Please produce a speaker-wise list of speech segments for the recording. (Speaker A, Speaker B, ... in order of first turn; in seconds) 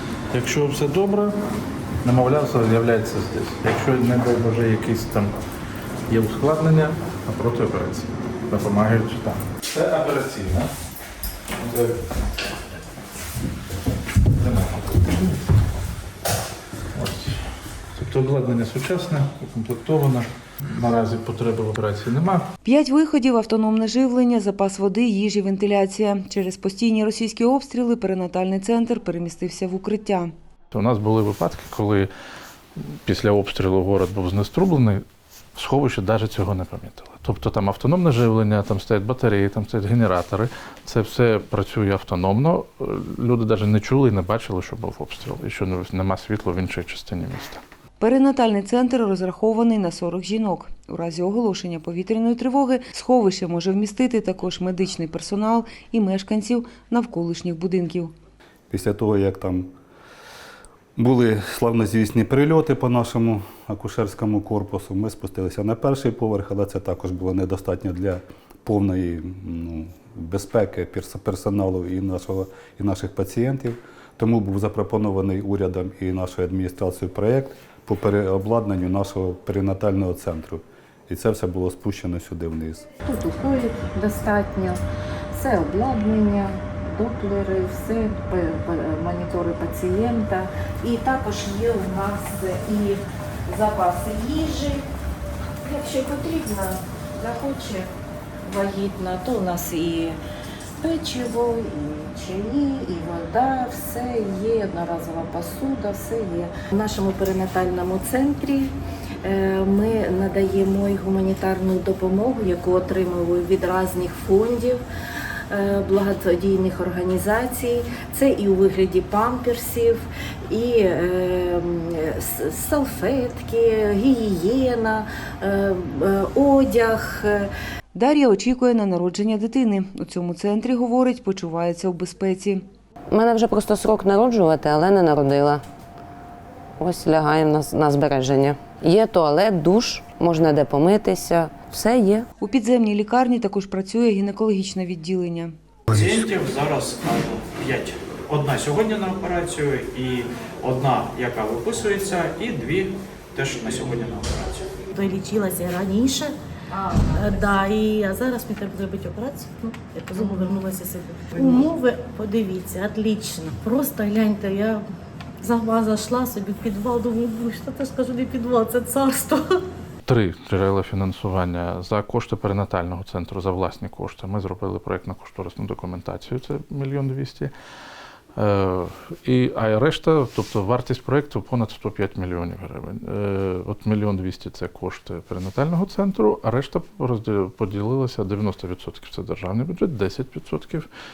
Speaker A: 0.3-1.4, 2.0-5.4, 6.1-10.7, 11.6-12.0, 14.3-15.4, 16.9-17.4, 17.9-22.4, 30.7-32.1, 32.8-35.0, 35.5-47.6, 170.1-177.5, 178.3-190.9
Speaker B: 22.6-30.3, 48.0-58.1, 127.9-132.6, 142.4-145.5
Speaker C: 58.7-59.7, 61.0-82.9
Speaker D: 83.0-84.8, 85.3-94.8, 95.6-97.9, 98.5-100.2, 100.8-108.7, 109.2-114.8, 115.5-127.5
Speaker E: 133.1-135.6, 136.8-142.2
Speaker F: 145.9-154.8
Speaker G: 154.9-156.3, 157.0-164.8, 165.4-169.6